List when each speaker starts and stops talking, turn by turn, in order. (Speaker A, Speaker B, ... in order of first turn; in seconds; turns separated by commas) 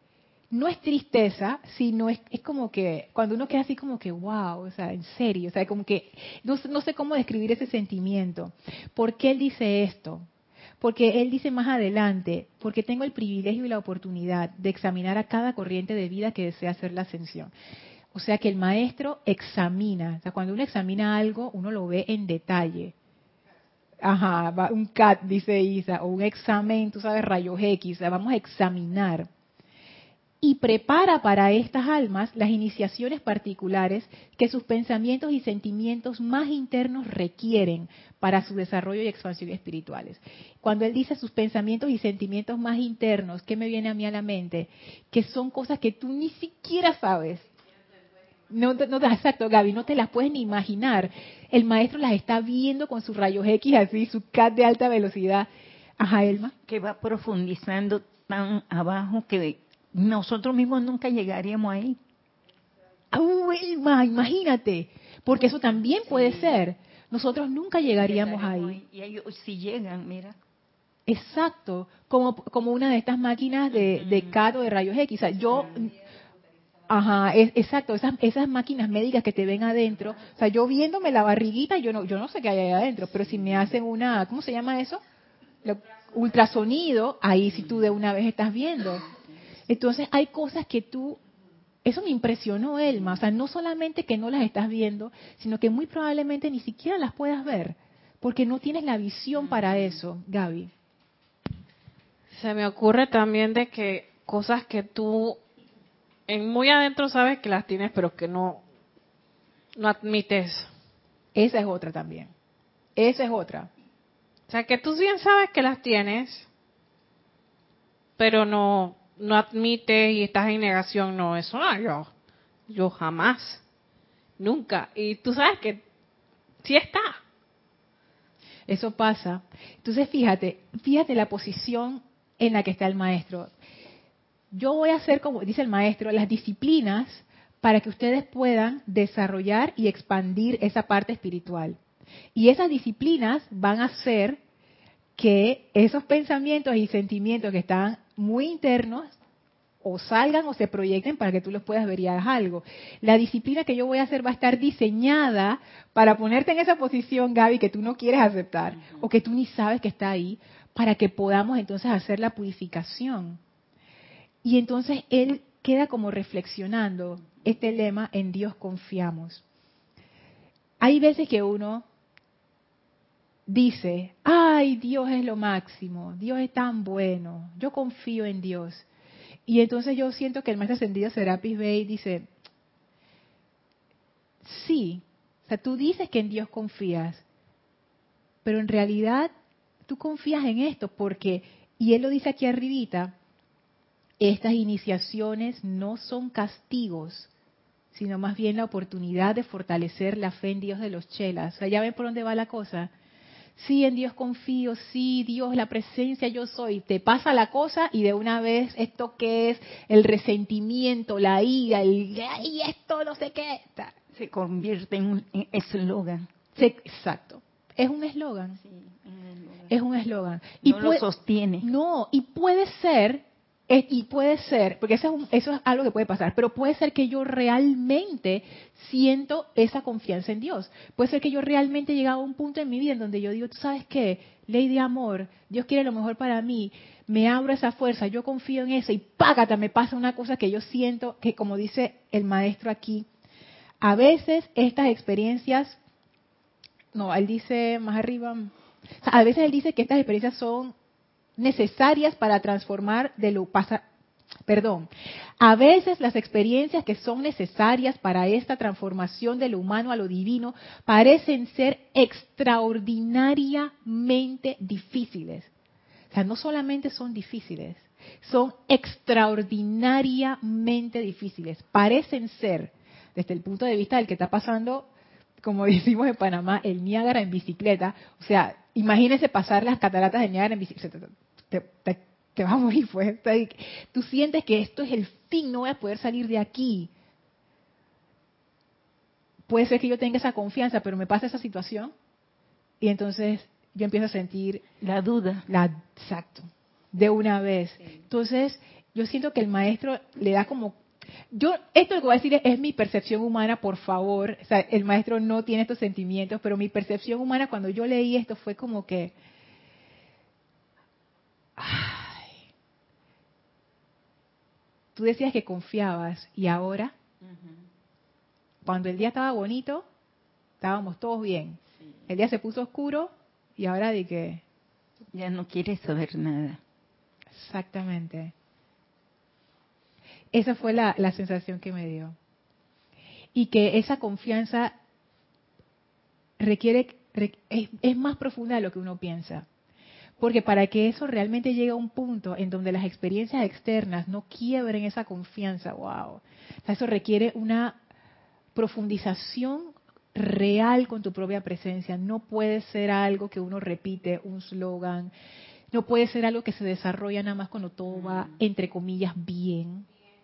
Speaker A: 0.5-10.2, Speaker A: 10.8-17.5, Speaker A: 18.1-22.9, Speaker A: 24.0-29.3, Speaker A: 30.4-47.4, Speaker A: 48.5-56.5, Speaker B: 56.6-62.0, Speaker A: 63.1-68.8, Speaker B: 68.0-70.3, Speaker A: 71.1-76.0, Speaker A: 76.9-85.0, Speaker A: 85.6-89.1, Speaker A: 89.7-91.2, Speaker A: 91.8-100.7, Speaker C: 102.3-105.4, Speaker C: 106.3-108.6, Speaker C: 109.8-110.7, Speaker A: 111.3-112.3, Speaker A: 113.0-113.7, Speaker C: 114.5-116.5, Speaker C: 118.2-122.1, Speaker C: 122.7-123.6, Speaker C: 124.4-125.8, Speaker C: 126.6-127.2, Speaker A: 128.7-133.5, Speaker A: 134.5-141.8, Speaker A: 142.3-144.4, Speaker A: 145.2-149.1, Speaker A: 149.8-163.4, Speaker A: 164.4-169.4, Speaker A: 170.8-171.8, Speaker A: 173.5-178.8, Speaker A: 179.5-182.3, Speaker A: 184.4-187.2, Speaker A: 188.4-189.3, Speaker A: 189.8-193.1, Speaker A: 194.2-197.3, Speaker A: 197.9-202.9, Speaker A: 203.6-213.9, Speaker B: 214.1-216.3, Speaker A: 216.5-218.6, Speaker B: 218.6-219.7, Speaker A: 219.7-221.0, Speaker B: 220.6-221.7, Speaker A: 221.6-243.1, Speaker A: 243.8-245.8, Speaker A: 246.9-250.7, Speaker A: 251.4-253.8, Speaker A: 254.5-254.9, Speaker A: 255.4-265.5, Speaker A: 266.1-274.9, Speaker A: 275.4-286.9, Speaker A: 289.5-291.9, Speaker A: 292.8-294.6, Speaker B: 294.8-295.4, Speaker A: 295.5-300.8, Speaker A: 301.3-309.1, Speaker A: 311.6-312.3, Speaker A: 314.9-316.9, Speaker A: 318.6-319.9, Speaker A: 320.6-324.4, Speaker B: 325.1-326.6, Speaker A: 327.3-328.3, Speaker A: 330.3-332.1, Speaker A: 333.3-334.8, Speaker A: 336.4-339.4, Speaker A: 340.2-347.8, Speaker A: 348.5-355.1, Speaker A: 355.7-359.9, Speaker B: 358.0-358.3